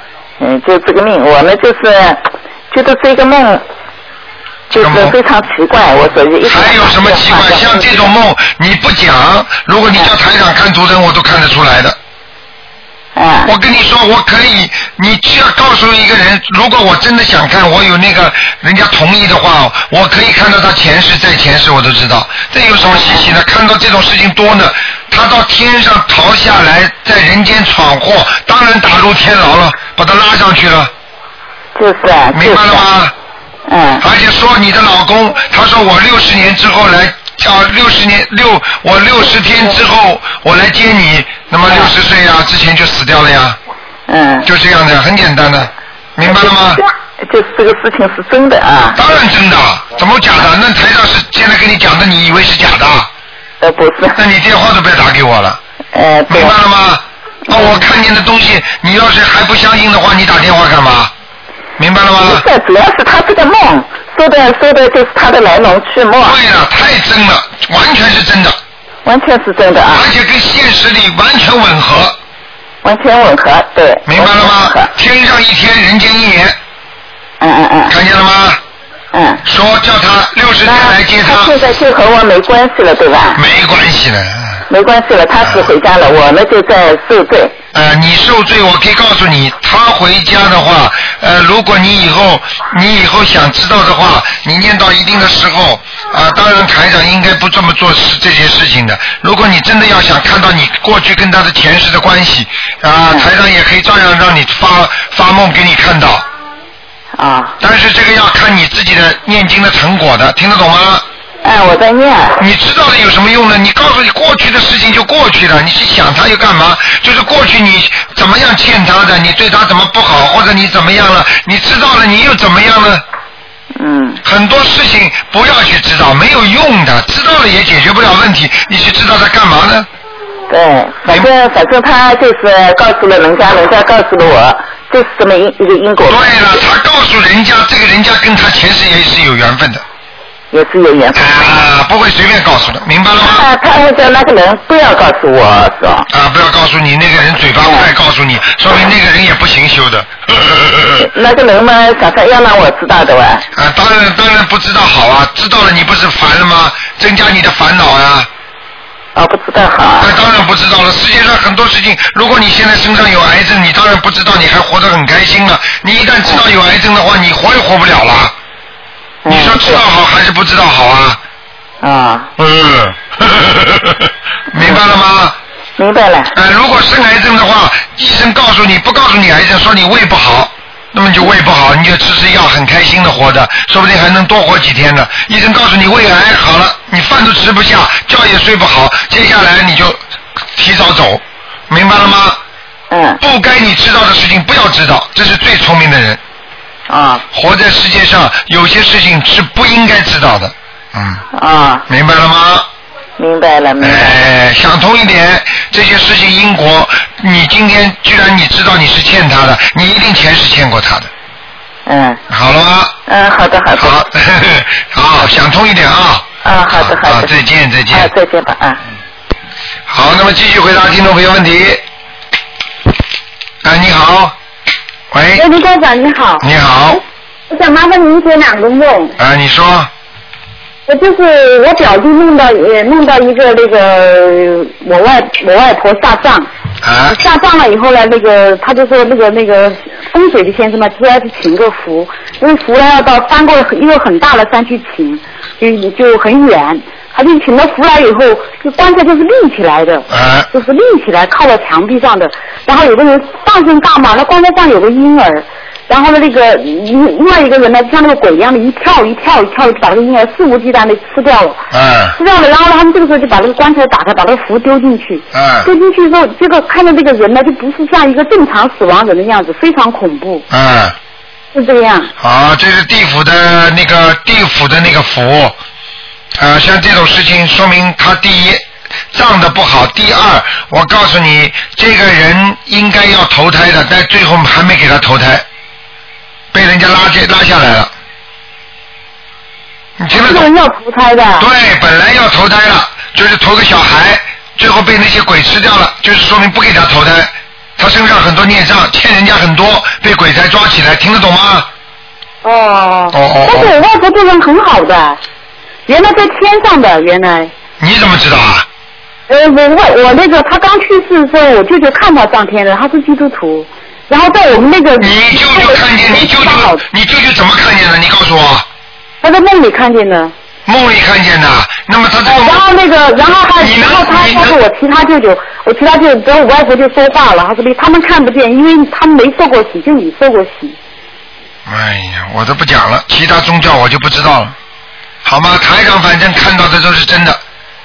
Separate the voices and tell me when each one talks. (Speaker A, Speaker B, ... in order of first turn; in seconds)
Speaker A: 0.4-3.6, 4.7-8.1, 13.2-13.5, 22.8-23.3, 31.8-32.9, 33.7-34.0, 41.7-41.9, 44.1-44.5, 46.2-49.0, 53.6-54.2, 55.9-56.6, 57.5-57.9, 62.2-66.4, 69.0-70.1, 72.8-74.9, 77.4-78.0, 79.1-79.4, 80.6-83.4, 84.7-87.6, 107.2-107.6, 111.4-112.4, 123.8-124.2, 130.5-136.6, 140.5-141.6, 143.2-146.1, 151.0-153.4, 159.2-160.1, 169.2-169.8, 171.8-172.3, 174.6-174.8, 175.8-176.3, 192.9-193.2, 196.9-197.3, 201.3-201.8, 203.2-204.2, 211.9-212.2, 213.1-214.0, 216.4-217.4, 217.9-218.8
Speaker B: 4.8-5.2, 6.5-12.0, 13.4-30.9, 32.3-33.1, 34.0-43.6, 44.5-46.8, 49.0-53.1, 54.2-55.6, 56.3-61.1, 61.8-62.4, 66.2-68.6, 69.9-72.2, 74.1-76.6, 77.9-78.6, 79.4-81.6, 83.3-84.6, 87.7-106.3, 107.6-111.0, 112.4-123.0, 124.2-129.9, 136.1-139.8, 141.1-143.5, 146.1-151.1, 153.6-158.3, 160.0-168.3, 169.3-171.2, 172.4-175.4, 176.3-190.0, 190.6-192.4, 193.2-196.2, 197.3-201.2, 201.9-202.7, 203.8-211.1, 212.3-213.0, 213.8-218.1, 219.9-221.8, 223.6-224.3, 225.1-225.5, 226.4-227.0, 229.2-229.9, 236.8-237.2, 250.1-250.5, 261.7-262.2, 265.3-265.7, 270.5-271.0, 272.2-275.6, 276.4-285.5, 286.5-287.9, 290.0-290.5, 291.4-301.7, 303.1-303.7, 307.8-308.7, 315.0-318.7, 320.7-322.7, 323.6-324.6, 331.7-334.6, 335.2-337.4
Speaker C: 225.4-226.4, 227.5-229.2, 230.9-236.5, 237.1-261.6, 262.2-270.5, 271.5-272.1, 290.1-291.5, 302.4-305.2, 305.9-307.5, 309.3-316.9, 319.2-320.3, 322.3-330.8